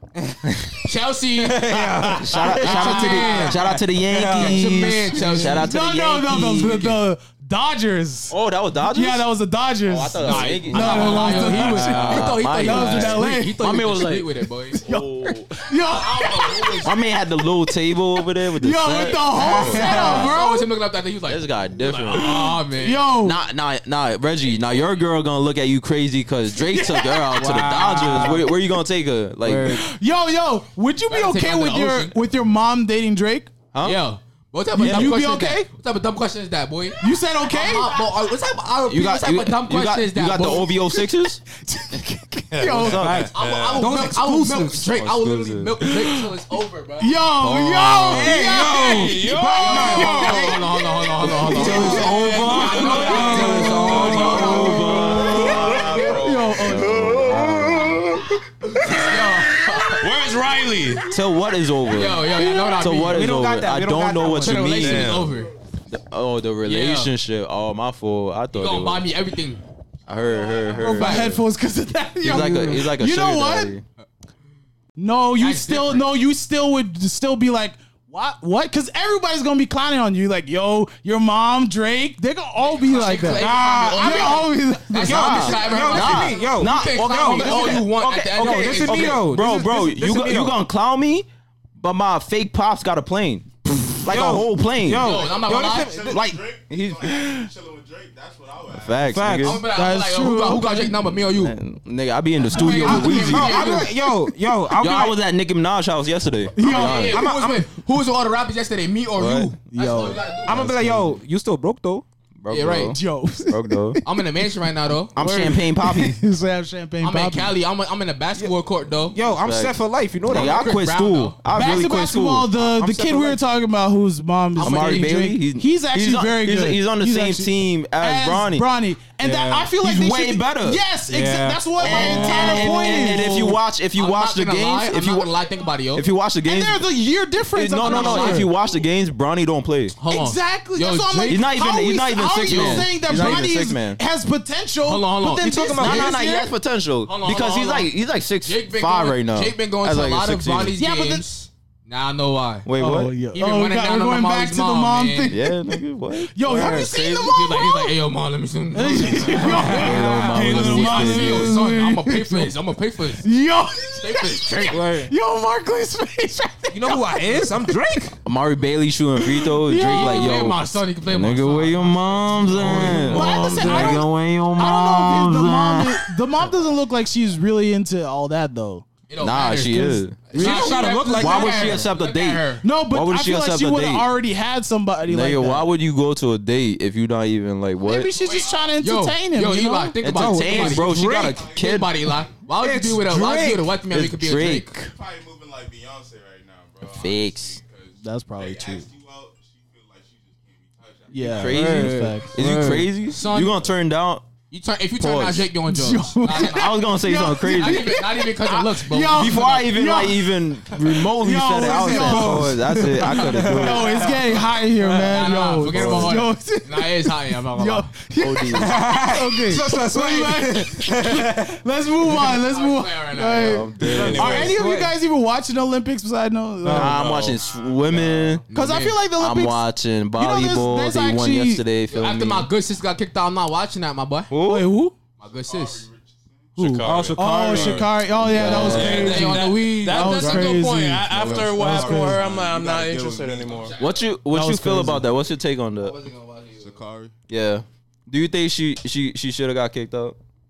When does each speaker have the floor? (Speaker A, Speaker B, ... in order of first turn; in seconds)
Speaker A: 0.1-0.4, 1.4-5.2, 19.3-20.3, 27.3-28.5, 29.4-29.8, 43.0-45.1, 48.1-50.6, 51.4-55.1, 57.2-57.8, 62.4-64.9, 83.3-90.6, 94.0-96.2, 99.1-99.6, 102.7-105.2, 106.9-107.6, 110.4-112.0, 119.1-120.8, 122.6-123.4, 129.2-129.7, 131.1-133.3, 145.2-146.2, 156.4-156.9, 159.3-160.7, 164.7-165.1, 166.7-168.1, 172.5-174.0, 180.3-181.8, 190.1-191.2, 192.6-193.7, 201.5-202.9, 211.6-215.1, 218.5-221.6, 223.8-224.9, 226.6-227.0, 236.8-237.9
Speaker B: 0.8-1.9, 2.5-3.6, 4.3-5.7, 6.4-6.9, 10.2-14.8, 15.9-16.9, 19.4-23.1, 31.1-32.1, 33.8-40.7, 43.3-48.8, 49.4-56.2, 58.7-60.2, 61.9-63.3, 64.2-65.5, 66.6-67.1, 68.5-69.6, 70.4-71.4, 75.4-76.1, 82.6-89.2, 94.9-96.1, 99.4-101.6, 102.4-103.9, 106.6-110.9, 112.5-113.0, 114.0-115.5, 117.0-119.2, 120.3-121.4, 124.6-125.1, 133.9-136.1, 137.8-138.5, 140.0-141.5, 142.5-142.9, 144.8-146.2, 147.1-152.7, 153.3-155.4, 156.6-163.3, 163.9-164.8, 169.8-173.4, 179.1-182.6, 188.1-194.7, 203.1-203.6, 204.5-209.6, 215.0-217.9, 222.2-223.8, 228.5-229.0, 231.9-234.3, 235.2-235.9, 238.4-240.6, 243.4-244.1, 245.8-246.8
Speaker C: 2.0-7.0, 8.3-9.3, 9.8-14.3, 14.8-15.5, 16.8-20.4, 21.2-22.6, 23.2-29.8, 33.7-34.0, 34.8-35.1, 38.8-41.4, 42.7-43.3, 44.9-45.8, 48.1-48.5, 51.2-58.0, 61.1-65.3, 65.9-69.1, 70.1-71.4, 72.2-73.8, 85.0-91.3, 91.8-95.2, 96.1-97.0, 98.8-99.6, 101.2-103.9, 104.8-107.4, 109.2-109.5, 110.5-111.0, 112.4-114.0, 115.1-116.2, 119.3-122.5, 124.6-128.7, 129.8-130.8, 131.8-135.3, 135.9-136.8, 137.6-139.9, 141.3-144.0, 145.8-150.8, 152.6-153.1, 155.3-157.3, 159.4-161.6, 168.2-176.2, 179.2-184.1, 185.1-188.2, 190.0-192.0, 193.9-194.9, 196.8-197.6, 201.3-204.3, 205.0-205.5, 206.3-208.2, 209.1-214.1, 215.7-216.2, 218.2-218.8, 223.4-224.4, 226.7-228.4, 229.2-232.5, 234.3-234.7, 238.2-239.2, 243.8-245.9, 247.3-250.2
Speaker D: 2.3-3.6, 5.3-13.6, 14.7-16.9, 17.7-20.7, 22.1-23.4, 26.6-28.5, 29.7-33.5, 34.7-35.7, 37.0-38.2, 41.6-43.0, 45.8-46.3, 47.0-52.1, 54.1-57.1, 70.8-73.7, 75.0-85.5, 97.1-97.5, 99.7-101.0, 102.5-103.5, 106.6-107.2, 109.7-110.3, 112.9-114.0, 115.5-117.5, 121.5-133.6, 136.4-138.5, 140.1-146.5, 150.7-151.2, 152.8-157.9, 158.7-162.6, 163.2-168.0, 169.2-170.4, 173.1-178.9, 182.6-185.7, 187.8-190.0, 198.0-198.9, 201.1-202.3, 205.7-227.0, 228.5-231.7, 234.4-234.9, 236.6-242.2, 244.3-245.1
Speaker E: 42.5-44.0, 48.3-50.4, 51.7-56.6, 58.8-61.1, 64.8-65.4, 223.8-224.6, 226.8-227.4, 236.6-243.8
Speaker F: 55.4-56.2, 95.2-99.4, 188.4-188.7, 191.1-191.8, 194.7-201.6, 227.2-228.4, 235.2-236.8, 240.5-243.7, 246.6-247.1